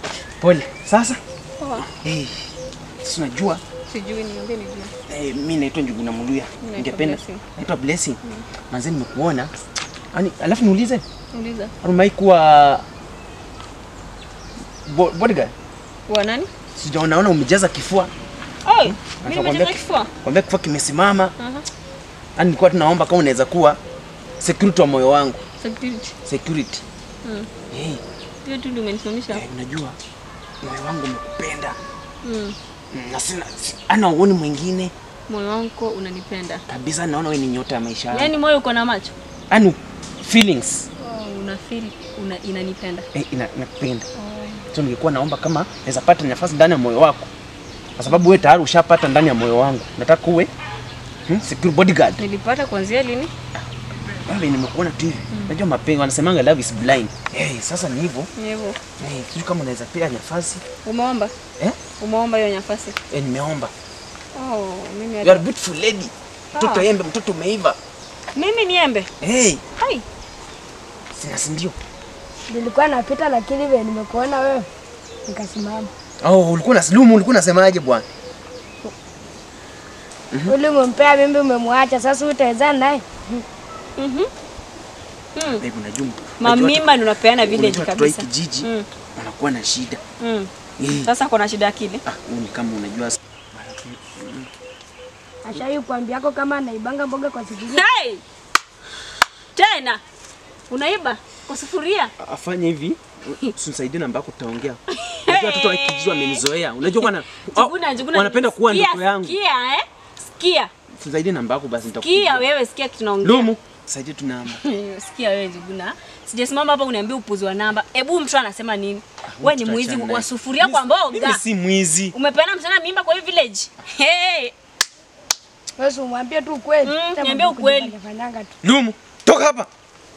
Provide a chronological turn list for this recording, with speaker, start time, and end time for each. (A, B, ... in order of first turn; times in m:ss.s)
0:00.4-0:01.2 A
0:01.6-0:01.9 B
0:01.8-0:03.6 A
0:03.9-0:04.9 B
0:05.1-0:08.2 A
0:06.6-0:07.4 B
0:08.7-0:09.5 A
0:10.1-0:11.0 A
0:11.3-0:11.7 B
0:11.8-0:12.8 A
0:14.9-0:15.5 A
0:16.1-0:16.5 B
0:16.8-0:18.1 A
0:18.6-0:20.1 B
0:18.8-0:21.3 A
0:21.4-0:21.7 B
0:22.4-0:23.8 A
0:24.4-0:25.4 A
0:25.6-0:26.1 B
0:26.2-0:26.8 A
0:27.2-0:27.5 B
0:27.7-0:28.0 A
0:28.4-0:29.4 B
0:29.3-0:30.0 A
0:30.6-0:31.8 A
0:32.2-0:32.6 B
0:32.9-0:34.9 A
0:35.3-0:36.6 B
0:36.7-0:38.3 A
0:38.1-0:39.1 B
0:39.5-0:40.9 A
0:41.0-0:43.1 B
0:43.1-0:44.1 A
0:44.2-0:44.6 B
0:44.7-0:47.3 A
0:48.0-0:50.5 A
0:51.3-0:52.2 A
0:52.2-0:53.3 B
0:54.3-0:58.3 A
0:58.4-0:58.8 B
0:59.0-1:00.6 A
1:00.8-1:01.3 B
1:02.0-1:03.0 B
1:03.1-1:03.7 A
1:04.4-1:05.4 B
1:05.2-1:07.8 A
1:06.5-1:06.9 B
1:08.4-1:09.1 B
1:09.2-1:09.6 A
1:09.8-1:10.0 B
1:11.1-1:11.8 A
1:12.5-1:14.7 C
1:15.3-1:15.9 C
1:16.2-1:18.1 A
1:20.5-1:23.4 C
1:24.0-1:24.3 B
1:25.4-1:25.6 B
1:25.5-1:30.0 A
1:26.4-1:28.9 B
1:30.2-1:32.0 B
1:30.8-1:31.1 A
1:32.0-1:34.5 A
1:35.4-1:37.8 C
1:37.6-1:38.2 B
1:39.6-1:40.0 B
1:40.7-1:42.1 B
1:42.2-1:49.4 A
1:44.9-1:46.4 B
1:47.0-1:49.8 B
1:50.4-1:50.7 B
1:50.9-1:52.5 A
1:52.0-1:53.5 B
1:53.2-1:54.6 A
1:54.5-2:01.4 B
1:59.2-2:02.2 A
2:02.1-2:04.5 B
2:05.8-2:08.5 C
2:06.8-2:07.9 B
2:08.6-2:09.7 A